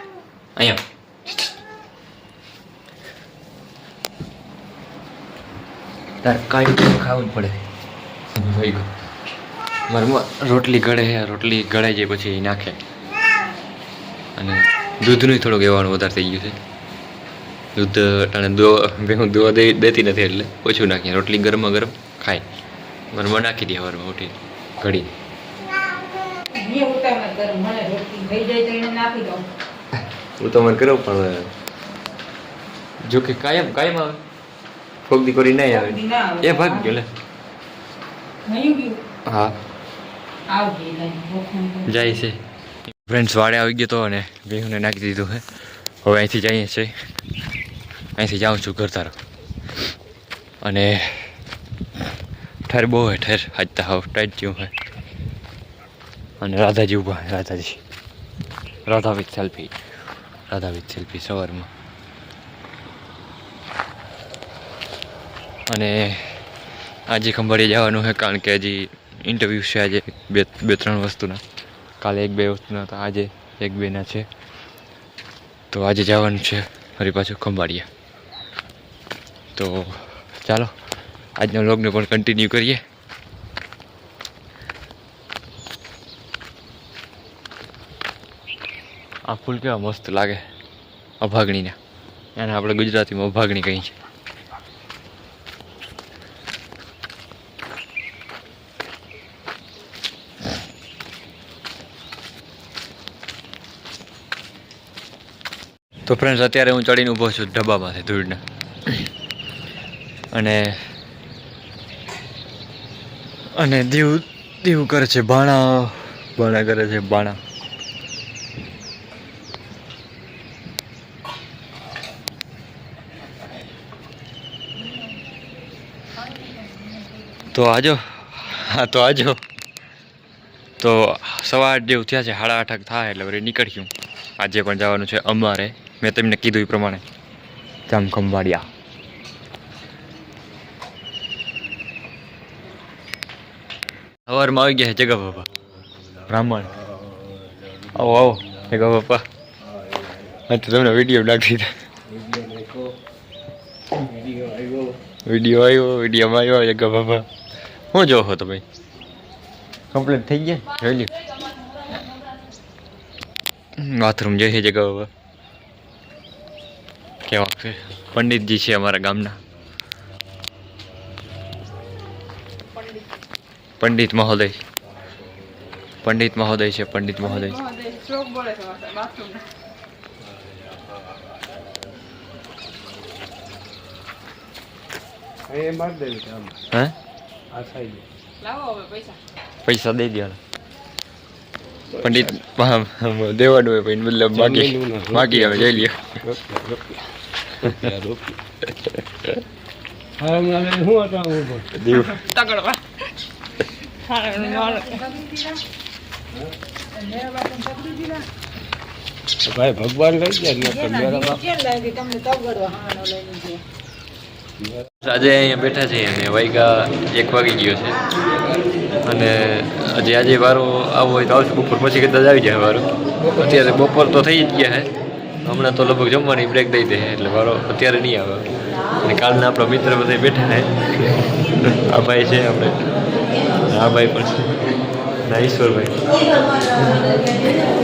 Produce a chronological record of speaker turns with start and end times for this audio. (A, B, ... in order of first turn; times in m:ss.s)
0:00.6-0:01.5 A
0:06.2-0:07.6 A
0:08.3-0:08.9 A
0:09.9-0:12.8 A
0:14.4-0:16.6 A
0:17.7-0:22.4 A
0:23.1-0:25.1 A
0:26.5-0:29.5 B
0:30.4-0:31.5 A
0:33.0-0:34.2 A
0:35.1-0:37.1 A
0:35.8-0:36.9 B
0:38.4-0:39.0 B
0:39.2-0:39.6 A
0:40.5-0:42.0 B
0:41.8-0:42.4 A
0:42.9-0:46.9 A
0:48.2-0:49.2 A
0:50.6-0:51.3 A
0:52.7-0:54.7 A
0:56.4-0:57.8 A
0:58.8-0:59.7 A
1:00.5-1:01.7 A
1:05.7-1:06.4 A
1:07.1-1:11.4 A
1:12.0-1:14.2 A
1:15.7-1:17.9 A
1:19.6-1:20.7 A
1:21.4-1:22.8 A
1:29.3-1:30.4 A
1:31.2-1:31.8 A
1:32.4-1:33.9 A
1:46.0-1:48.4 A
1:50.3-1:50.8 A
1:53.6-1:57.4 A
2:07.5-2:09.4 A
2:10.8-2:17.0 A
2:17.9-2:18.7 A
2:24.3-2:25.5 A
2:26.3-2:26.7 A
2:27.9-2:29.2 A
2:30.5-2:31.7 A
2:32.1-2:32.9 C
2:34.0-2:35.0 C
2:35.2-2:37.2 A
2:37.9-2:38.6 A
2:39.9-2:41.1 A
2:43.8-2:45.1 A
2:47.3-2:49.4 A
2:53.8-2:54.6 A
2:56.0-2:57.6 A
2:57.2-2:59.4 B
3:05.5-3:06.6 C
3:07.5-3:08.0 C
3:08.4-3:09.2 B
3:09.6-3:10.4 A
3:12.0-3:16.2 A
3:14.3-3:17.0 C
3:17.5-3:18.4 C
3:20.2-3:21.7 C
3:21.7-3:22.2 A
3:21.9-3:22.8 B
3:24.0-3:25.5 B
3:27.2-3:28.0 B
3:29.4-3:31.5 C
3:31.1-3:33.6 B
3:35.0-3:38.0 A
3:39.0-3:44.9 A
3:45.4-3:48.5 A
3:49.0-3:52.8 A
3:53.7-3:54.7 A
3:55.3-3:56.0 A